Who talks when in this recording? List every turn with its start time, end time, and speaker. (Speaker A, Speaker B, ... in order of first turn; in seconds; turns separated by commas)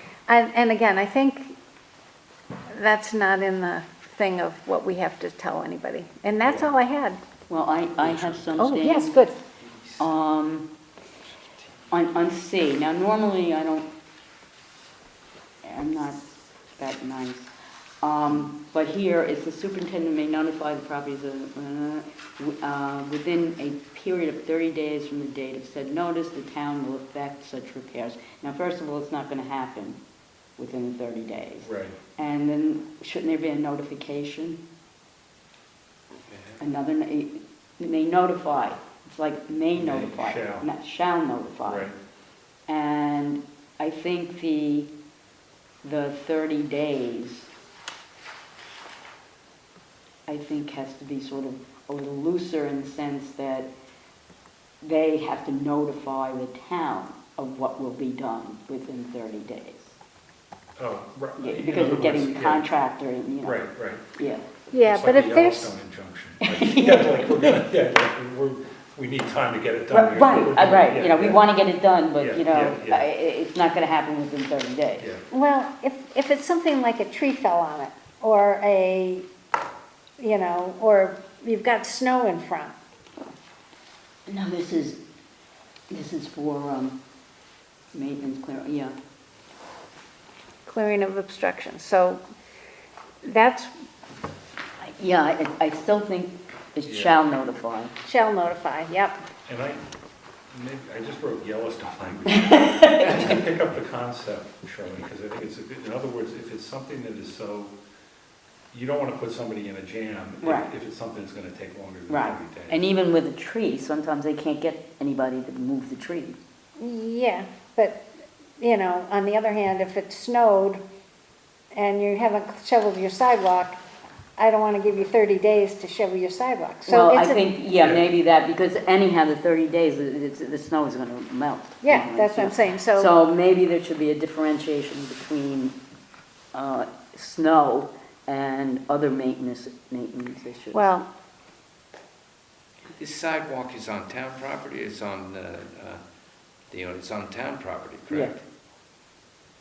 Speaker A: 0.3-1.5, Speaker A: 2.7-7.2, Speaker B: 7.5-9.2, Speaker C: 8.0-8.4, Speaker A: 8.6-9.3, Speaker B: 10.0-10.7, Speaker B: 11.9-13.9, Speaker B: 15.6-16.2, Speaker B: 16.7-30.0, Speaker B: 30.6-34.6, Speaker C: 31.6-31.9, Speaker D: 36.3-36.6, Speaker B: 36.6-41.9, Speaker C: 39.8-40.6, Speaker C: 41.6-41.9, Speaker B: 42.7-44.9, Speaker B: 45.8-47.5, Speaker B: 50.3-53.7, Speaker B: 54.8-59.9, Speaker C: 60.8-62.7, Speaker B: 61.4-63.6, Speaker C: 63.4-64.0, Speaker B: 64.2-64.4, Speaker A: 64.7-65.7, Speaker C: 64.8-71.4, Speaker B: 66.4-67.6, Speaker B: 69.9-75.0, Speaker C: 72.2-73.1, Speaker C: 75.0-75.2, Speaker A: 75.3-79.3, Speaker A: 80.2-82.8, Speaker B: 84.3-85.0, Speaker B: 85.9-87.0, Speaker B: 87.9-89.0, Speaker A: 90.7-92.2, Speaker A: 93.2-93.7, Speaker B: 94.8-97.9, Speaker C: 96.8-97.1, Speaker A: 98.0-99.2, Speaker C: 99.5-99.8, Speaker C: 100.5-107.7, Speaker B: 102.3-103.4, Speaker C: 108.7-112.8, Speaker B: 110.4-110.7, Speaker B: 112.1-116.4, Speaker A: 116.8-118.0, Speaker A: 118.6-120.8, Speaker A: 121.7-123.8, Speaker A: 124.4-127.4, Speaker B: 126.9-135.8, Speaker A: 131.8-133.1, Speaker B: 136.5-140.9, Speaker A: 140.7-141.1, Speaker D: 143.0-146.0, Speaker D: 146.7-148.3, Speaker B: 148.1-148.4